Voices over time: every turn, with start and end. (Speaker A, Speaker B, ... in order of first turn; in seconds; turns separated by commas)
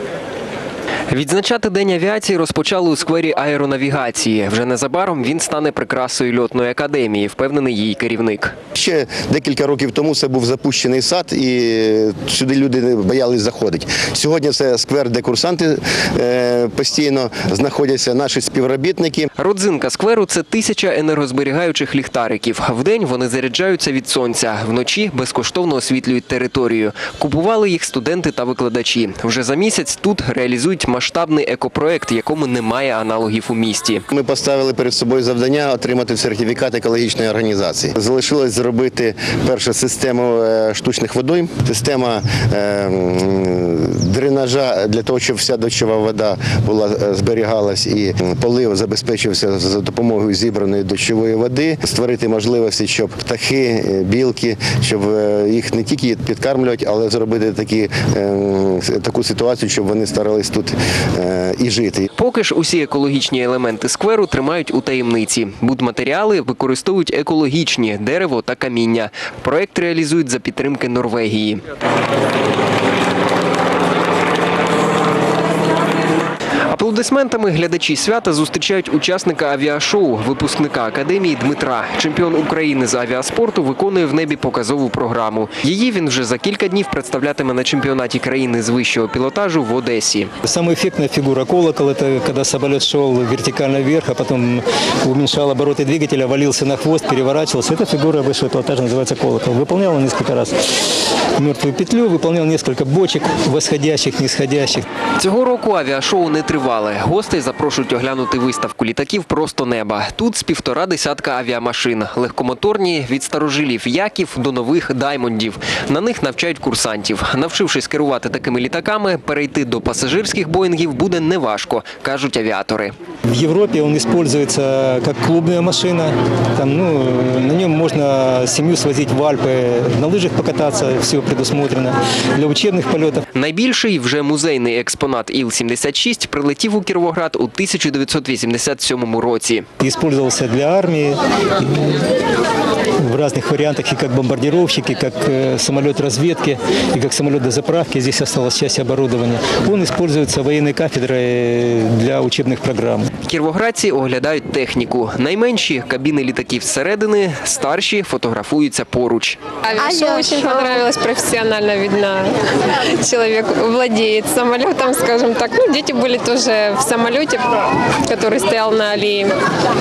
Speaker A: 1.1-8.5, Speaker B: 8.7-19.3, Speaker A: 19.4-34.0, Speaker B: 34.1-62.1, Speaker A: 62.2-71.6, Speaker A: 76.7-90.3, Speaker C: 90.4-100.6, Speaker C: 101.4-104.8, Speaker A: 105.2-122.9, Speaker C: 123.3-133.2, Speaker A: 133.3-139.7, Speaker C: 139.8-142.1, Speaker C: 143.0-153.1, Speaker A: 153.2-159.4, Speaker D: 159.6-162.3, Speaker D: 163.0-167.5, Speaker D: 168.1-169.3